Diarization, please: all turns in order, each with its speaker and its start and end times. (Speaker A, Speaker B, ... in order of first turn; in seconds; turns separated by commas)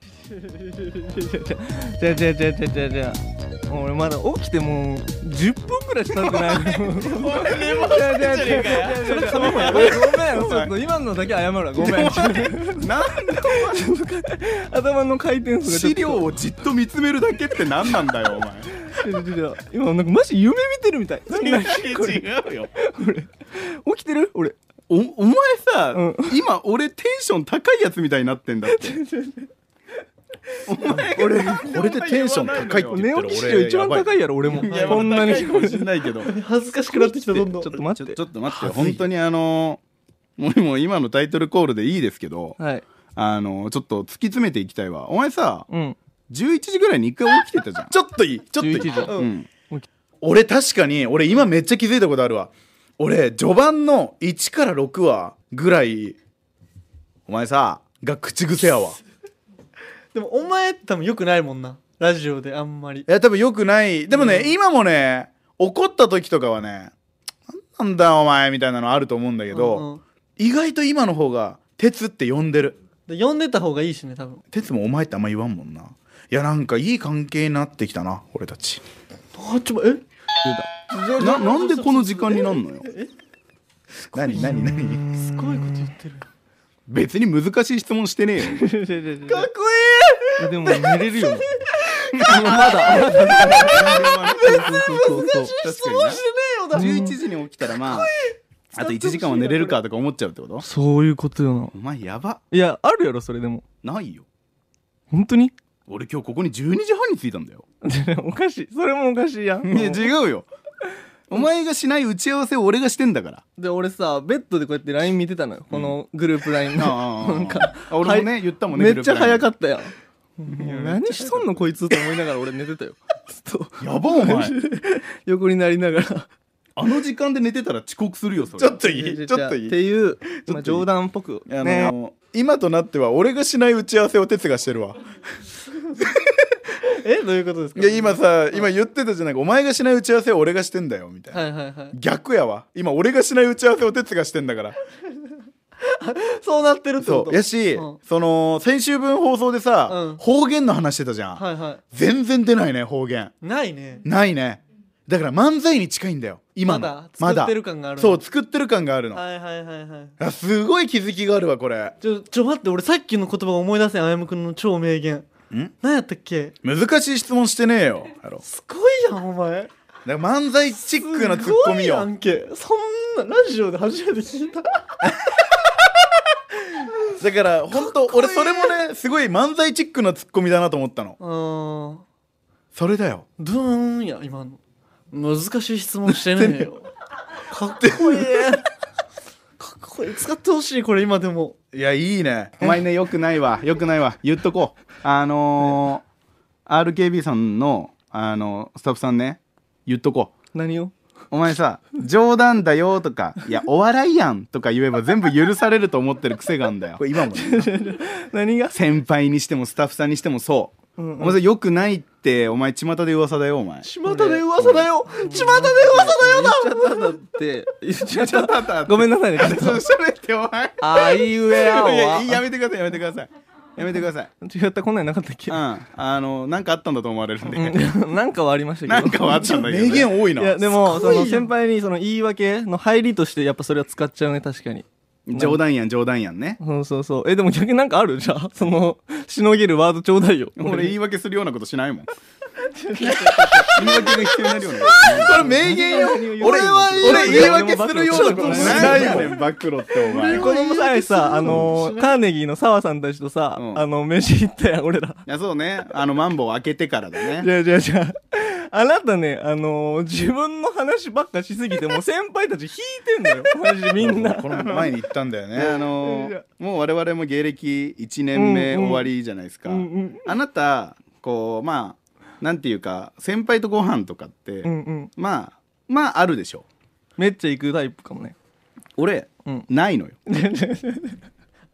Speaker A: 0.3-16.3, Speaker B: 7.2-10.7, Speaker C: 7.2-10.0, Speaker D: 9.0-10.0, Speaker B: 11.7-13.9, Speaker B: 15.6-18.7, Speaker A: 18.8-24.6, Speaker B: 21.3-22.7, Speaker B: 24.9-29.0, Speaker A: 25.9-26.4, Speaker A: 28.7-29.5, Speaker B: 30.6-33.5, Speaker A: 30.9-35.9, Speaker C: 31.4-34.1, Speaker B: 34.6-36.3, Speaker D: 34.6-35.2, Speaker C: 34.6-35.5, Speaker D: 36.2-37.8, Speaker A: 36.9-38.2, Speaker B: 38.0-39.8, Speaker C: 38.5-39.0, Speaker B: 40.4-42.6, Speaker A: 42.6-42.8, Speaker B: 43.1-45.7, Speaker A: 45.7-46.0, Speaker B: 46.3-47.9, Speaker C: 47.9-49.2, Speaker A: 48.6-49.9, Speaker B: 49.1-49.5, Speaker C: 50.2-56.2, Speaker C: 57.3-59.0, Speaker D: 60.1-63.1, Speaker C: 63.1-66.9, Speaker D: 64.1-64.5, Speaker C: 67.5-69.8, Speaker D: 69.5-70.0, Speaker C: 70.4-72.8, Speaker D: 73.1-74.4, Speaker C: 74.5-78.8, Speaker D: 79.3-80.0, Speaker A: 80.4-81.4, Speaker D: 80.9-83.1, Speaker B: 81.2-82.9, Speaker C: 84.1-85.0, Speaker D: 84.1-86.2, Speaker A: 84.3-85.8, Speaker B: 86.9-88.6, Speaker A: 88.5-89.5, Speaker D: 89.3-97.1, Speaker A: 90.4-91.5, Speaker A: 92.2-95.5, Speaker B: 93.5-94.6, Speaker B: 95.6-98.1, Speaker A: 96.7-97.2, Speaker D: 97.8-99.8, Speaker B: 98.7-100.7, Speaker A: 100.6-101.7, Speaker B: 101.7-102.4, Speaker A: 102.5-103.6, Speaker B: 103.8-104.2, Speaker A: 105.1-105.5, Speaker B: 105.9-107.6, Speaker A: 107.8-110.1, Speaker B: 109.6-110.5, Speaker B: 111.3-113.4, Speaker A: 113.6-126.3, Speaker B: 115.7-116.0, Speaker B: 116.7-119.5, Speaker B: 120.5-121.7, Speaker B: 123.8-124.5, Speaker B: 126.8-128.8, Speaker C: 128.6-129.8, Speaker A: 128.8-131.9, Speaker C: 130.4-130.8, Speaker C: 131.5-135.0, Speaker D: 136.9-138.7, Speaker C: 137.8-141.4, Speaker D: 141.3-141.9, Speaker C: 141.9-144.8, Speaker D: 145.8-148.0, Speaker C: 147.0-153.3, Speaker D: 149.9-150.2, Speaker D: 151.3-151.8, Speaker D: 153.4-154.0, Speaker C: 154.0-159.2, Speaker D: 156.6-158.2, Speaker D: 159.1-160.2, Speaker C: 160.2-161.9, Speaker D: 162.0-165.3, Speaker D: 165.8-166.6, Speaker C: 166.6-168.4, Speaker D: 168.4-169.7, Speaker C: 170.0-172.1, Speaker D: 170.8-174.8, Speaker C: 177.2-181.2, Speaker D: 177.7-178.8, Speaker D: 181.2-182.0, Speaker C: 182.7-183.2, Speaker D: 183.4-184.6, Speaker D: 185.1-186.9, Speaker D: 187.5-188.6, Speaker C: 187.8-188.6, Speaker D: 189.6-191.6, Speaker C: 191.7-192.7, Speaker B: 192.6-196.0, Speaker B: 196.7-200.3, Speaker A: 200.5-200.9, Speaker B: 201.3-207.0, Speaker C: 207.0-207.7, Speaker A: 207.3-208.8, Speaker B: 208.7-213.9, Speaker A: 211.0-211.4, Speaker D: 213.8-217.0, Speaker A: 214.1-219.8, Speaker B: 214.6-214.8, Speaker B: 218.1-224.3, Speaker A: 220.8-222.4, Speaker A: 224.4-225.6, Speaker B: 225.5-227.8, Speaker A: 227.5-229.6, Speaker B: 228.8-230.2, Speaker C: 229.5-230.6, Speaker A: 230.3-235.6, Speaker D: 230.8-231.5, Speaker B: 235.3-236.6, Speaker A: 236.6-240.9, Speaker B: 240.6-242.1, Speaker A: 242.7-249.4, Speaker B: 243.7-250.5, Speaker C: 245.0-249.4, Speaker D: 247.0-247.6, Speaker D: 248.1-249.3, Speaker D: 250.1-252.1, Speaker A: 250.1-255.2, Speaker B: 251.4-251.8, Speaker B: 253.6-253.8, Speaker B: 255.3-257.5, Speaker A: 257.3-264.9, Speaker C: 264.0-265.6, Speaker B: 264.1-264.9, Speaker B: 265.5-276.6, Speaker A: 265.6-266.4, Speaker A: 268.3-269.1, Speaker A: 269.6-270.3, Speaker A: 274.6-275.1, Speaker A: 277.2-278.3, Speaker B: 279.0-280.2, Speaker A: 280.3-281.2